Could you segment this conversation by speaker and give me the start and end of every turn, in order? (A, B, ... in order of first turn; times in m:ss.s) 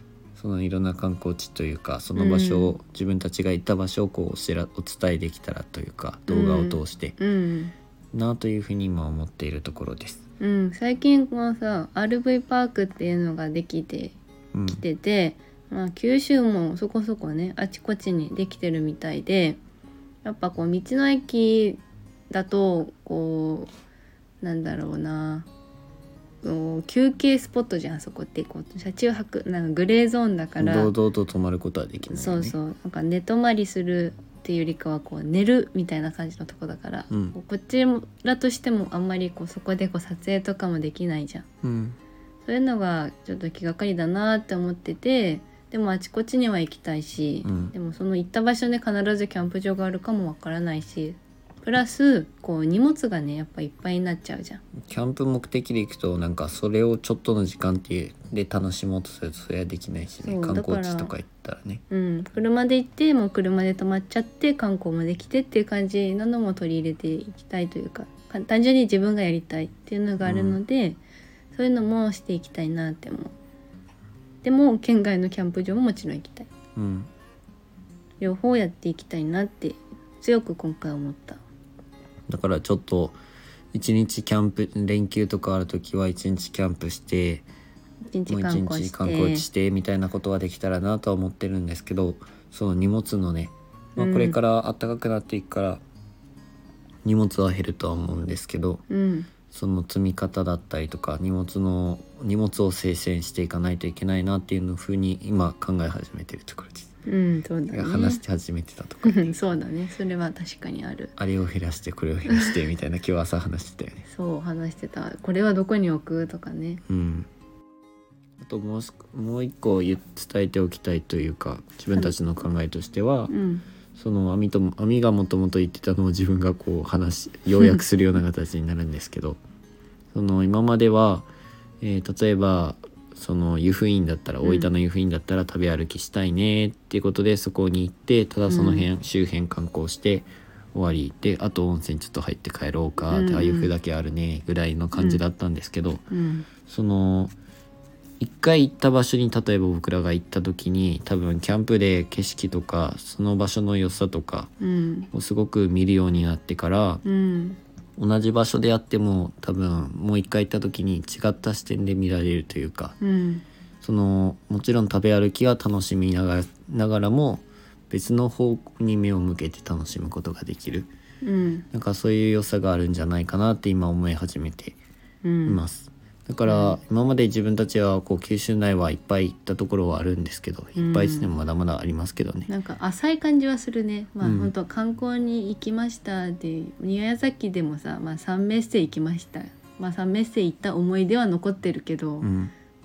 0:00.4-0:07.2 A
0:02.2-0:02.8 B
0:06.3-0:07.7 B
0:08.1-0:10.2 A
0:10.4-0:14.2 B
0:14.5-0:14.8 A
0:14.7-0:19.6 B
0:20.2-0:23.7 B
0:24.4-0:25.5 B
0:26.4-0:30.9 B
0:30.6-0:32.6 A
0:32.1-0:41.5 B
0:37.1-0:37.4 A
0:41.6-0:42.0 A
0:42.4-0:54.6 B
0:47.4-0:47.8 A
0:54.9-1:01.8 A
1:00.2-1:01.1 B
1:01.9-1:11.0 B
1:10.2-1:10.6 A
1:11.5-1:13.3 B
1:14.4-1:16.5 B
1:16.8-1:17.1 A
1:18.2-1:21.4 B
1:22.3-1:23.2 A
1:23.7-1:27.5 A
1:28.1-1:29.4 B
1:28.3-1:35.8 A
1:34.0-1:34.4 B
1:37.0-1:38.8 A
1:38.9-1:39.3 B
1:39.5-1:46.9 A
1:47.1-1:48.2 B
1:47.7-1:49.4 A
1:49.0-1:51.1 B
1:51.2-1:54.0 A
1:54.1-1:56.8 B
1:56.8-1:57.3 A
1:58.4-2:03.3 A
2:03.3-2:03.6 B
2:04.0-2:09.4 A
2:10.1-2:11.3 A
2:11.8-2:26.0 A
2:14.4-2:14.7 B
2:18.5-2:18.9 B
2:23.1-2:23.7 B
2:25.0-2:25.2 B
2:26.1-2:26.5 B
2:26.6-2:27.4 A
2:28.2-2:34.5 A
2:34.6-2:35.1 B
2:35.1-2:37.0 A
2:37.0-2:37.6 B
2:38.0-2:43.0 A
2:43.0-2:43.4 B
2:43.8-2:50.9 A
2:51.2-2:51.7 B
2:51.7-2:54.8 A
2:55.2-2:55.6 B
2:55.5-3:02.5 A
2:56.5-2:56.8 B
3:00.8-3:01.3 B
3:02.5-3:12.3 B
3:04.2-3:04.5 A
3:12.2-3:12.5 A